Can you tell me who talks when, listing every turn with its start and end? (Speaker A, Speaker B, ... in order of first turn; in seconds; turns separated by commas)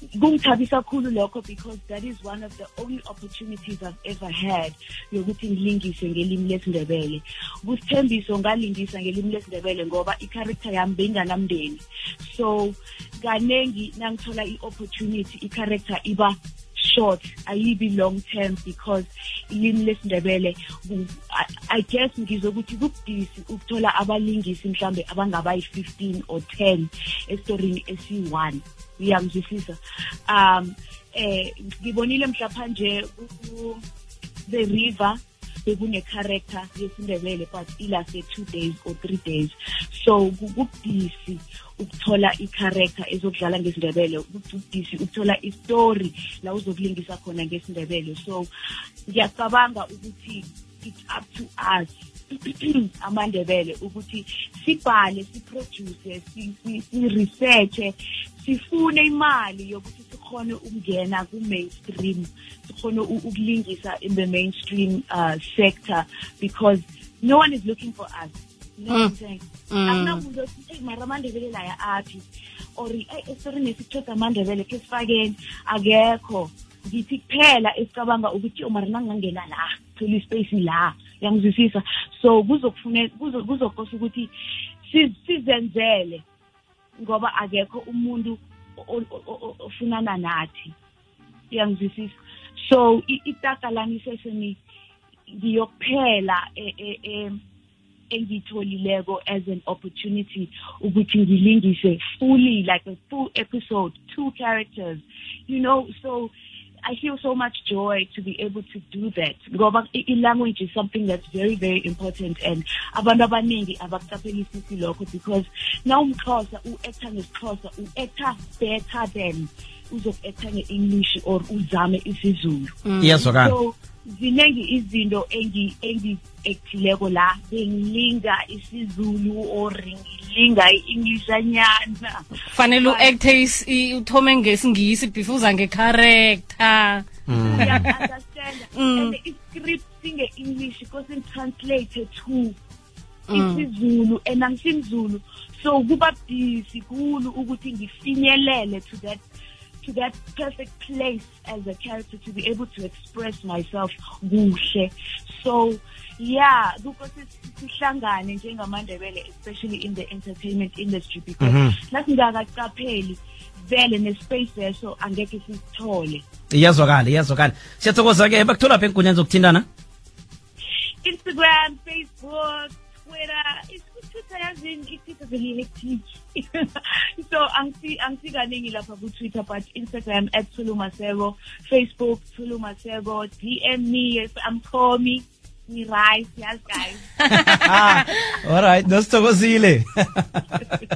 Speaker A: 0.1-33.8, Speaker A: 34.5-48.5, Speaker A: 49.1-72.2, Speaker B: 69.7-70.2, Speaker A: 72.8-84.3, Speaker A: 84.8-86.2, Speaker A: 87.0-90.7, Speaker A: 91.5-94.6, Speaker A: 95.3-97.4, Speaker A: 98.1-106.3, Speaker A: 106.8-133.1, Speaker B: 122.8-123.3, Speaker C: 123.0-123.5, Speaker B: 132.5-138.0, Speaker C: 137.3-137.9, Speaker A: 137.3-142.6, Speaker B: 138.7-139.1, Speaker B: 143.3-143.7, Speaker A: 143.3-149.2, Speaker A: 149.8-166.2, Speaker C: 161.4-161.7, Speaker C: 166.5-169.7, Speaker A: 171.0-187.5, Speaker B: 187.2-188.1, Speaker C: 187.5-190.4